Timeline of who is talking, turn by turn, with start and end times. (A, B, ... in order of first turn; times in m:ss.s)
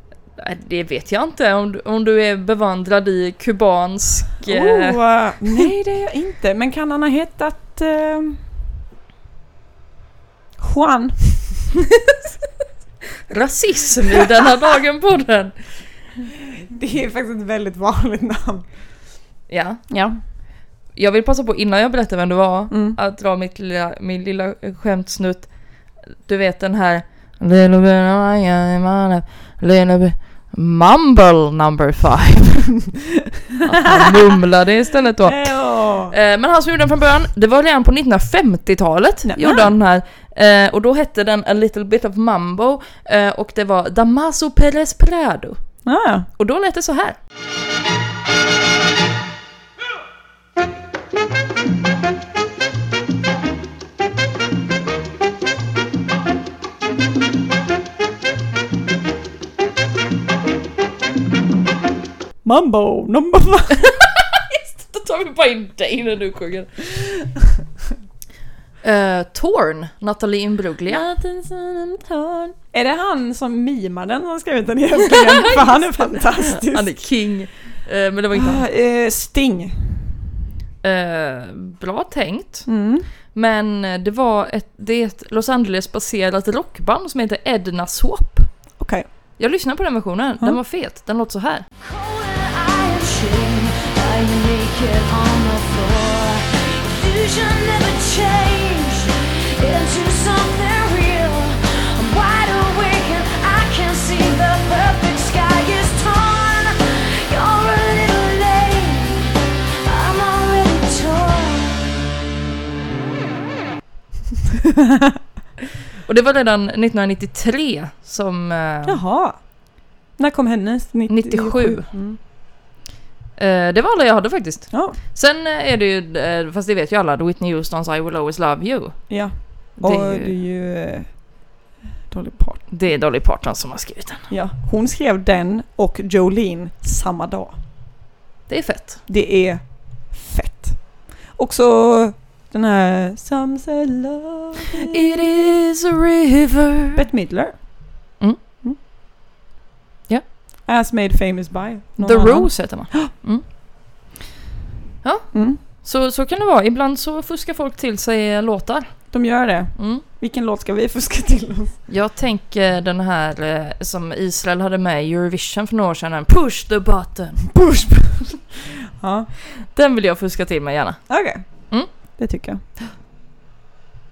0:00.4-0:05.0 A
0:04.4-0:08.4 B
0:10.6-0:11.6 B
0:13.3-0:15.6 A
0:16.7-0:18.7 B
0:19.5-0:19.8 A
0:19.9-0:20.2 B
0:20.9-0:25.5 A
0:22.7-0:23.0 B
0:26.0-0:32.7 A
0:33.6-0:45.8 A
0:35.2-0:36.1 B
0:39.2-0:39.7 B
0:45.8-0:46.3 B
0:46.3-0:47.2 A
1:02.4-1:03.9 B
1:03.7-1:06.8 A
1:08.8-1:11.0 A
1:10.9-1:17.0 B
1:15.0-1:18.6 A
1:18.3-1:20.1 B
1:20.8-1:22.7 A
1:22.7-1:23.1 B
1:23.3-1:28.6 A
1:28.8-1:29.0 B
1:29.4-1:31.6 A
1:31.8-1:51.8 C
1:54.8-1:55.1 B
1:56.0-1:59.0 A
1:58.8-2:02.2 B
2:01.1-2:01.9 A
2:03.4-2:10.3 A
2:04.7-2:05.0 B
2:09.1-2:11.2 B
2:12.1-2:12.6 B
2:12.7-2:14.3 A
2:14.3-2:17.6 B
2:18.5-2:19.0 A
2:19.1-2:25.2 B
2:24.9-2:27.0 A
2:26.9-2:27.7 B
2:30.6-2:33.1 B
2:32.0-2:33.4 A
2:35.0-2:39.2 A
2:35.3-2:35.6 B
2:39.1-2:41.8 B
2:39.8-2:40.0 A
2:41.9-2:47.5 A
2:47.5-2:48.4 B
2:49.0-2:49.3 B
2:49.6-2:51.9 A
2:51.1-2:52.6 B